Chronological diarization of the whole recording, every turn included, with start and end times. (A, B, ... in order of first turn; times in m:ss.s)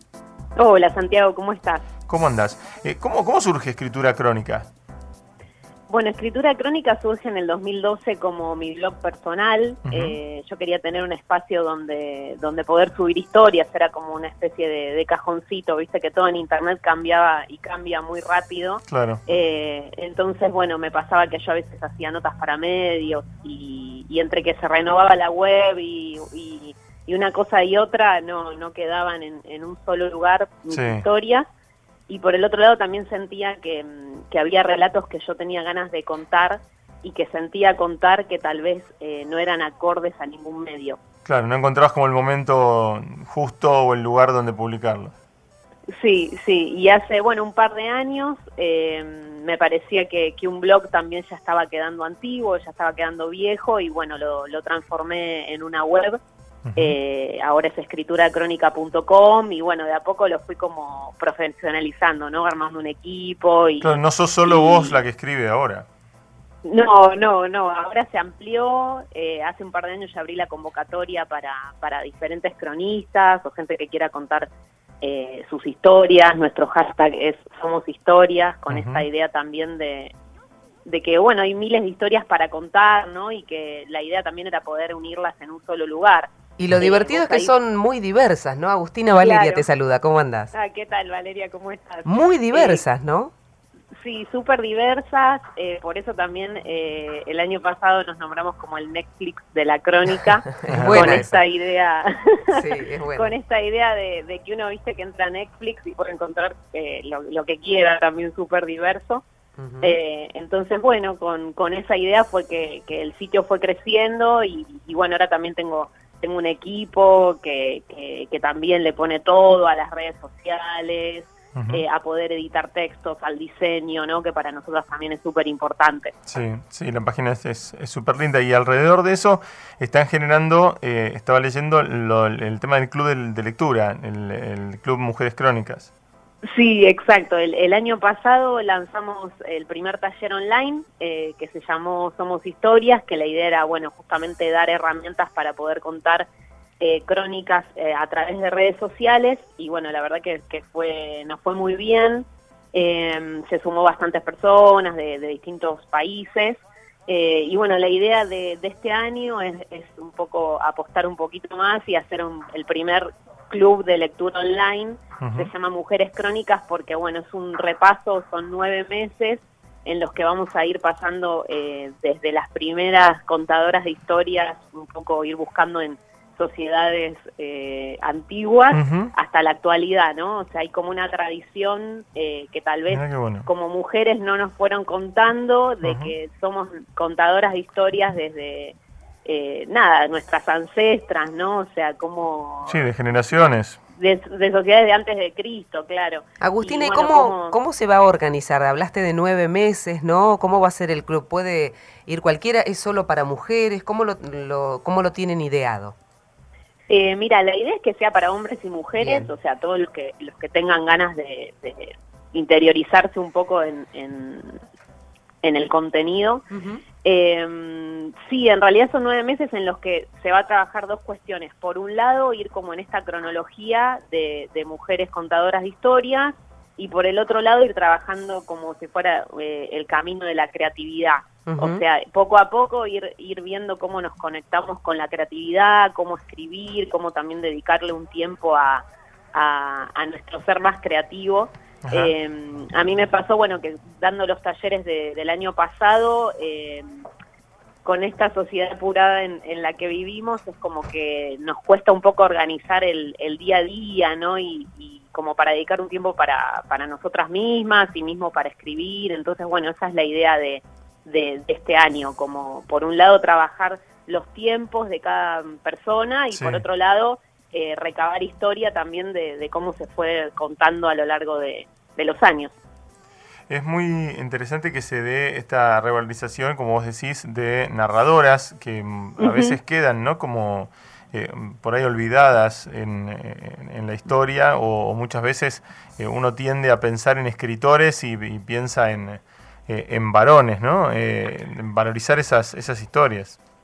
0:00.6-0:01.9 A
0:02.1-0:04.7 B
0:05.9-0:31.5 A
0:09.9-0:10.2 B
0:18.9-0:19.2 B
0:30.7-0:31.0 B
0:32.1-0:41.0 A
0:41.2-0:45.1 B
0:45.9-0:56.2 A
0:56.6-0:57.0 B
0:56.8-1:05.0 A
1:03.8-1:05.9 B
1:06.6-1:14.5 A
1:15.0-1:20.1 A
1:18.7-1:19.1 B
1:20.8-1:27.5 A
1:26.6-1:30.5 C
1:29.2-1:29.7 A
1:30.5-1:32.8 A
1:32.0-1:33.3 C
1:33.9-1:49.2 A
1:40.6-1:41.4 C
1:40.7-1:41.2 B
1:42.5-1:43.3 C
1:49.6-1:50.0 C
1:49.8-2:06.1 A
2:01.6-2:01.8 B
2:06.3-2:15.9 B
2:16.4-2:26.3 A
2:26.8-3:12.8 A
2:45.2-2:45.5 B
2:58.7-2:59.1 B
3:02.9-3:03.5 B
3:05.8-3:06.1 B
3:12.7-3:13.8 B
3:14.0-3:17.5 A
3:16.4-3:26.0 C
3:26.9-3:34.6 A
3:29.0-3:29.3 C
3:35.4-3:36.5 A
3:36.5-3:36.8 C
3:37.0-4:07.0 A
3:51.5-3:51.8 C
4:01.8-4:02.1 B
4:07.8-4:32.6 A
4:26.3-4:26.6 B
4:33.5-4:53.4 B
4:39.2-4:39.6 A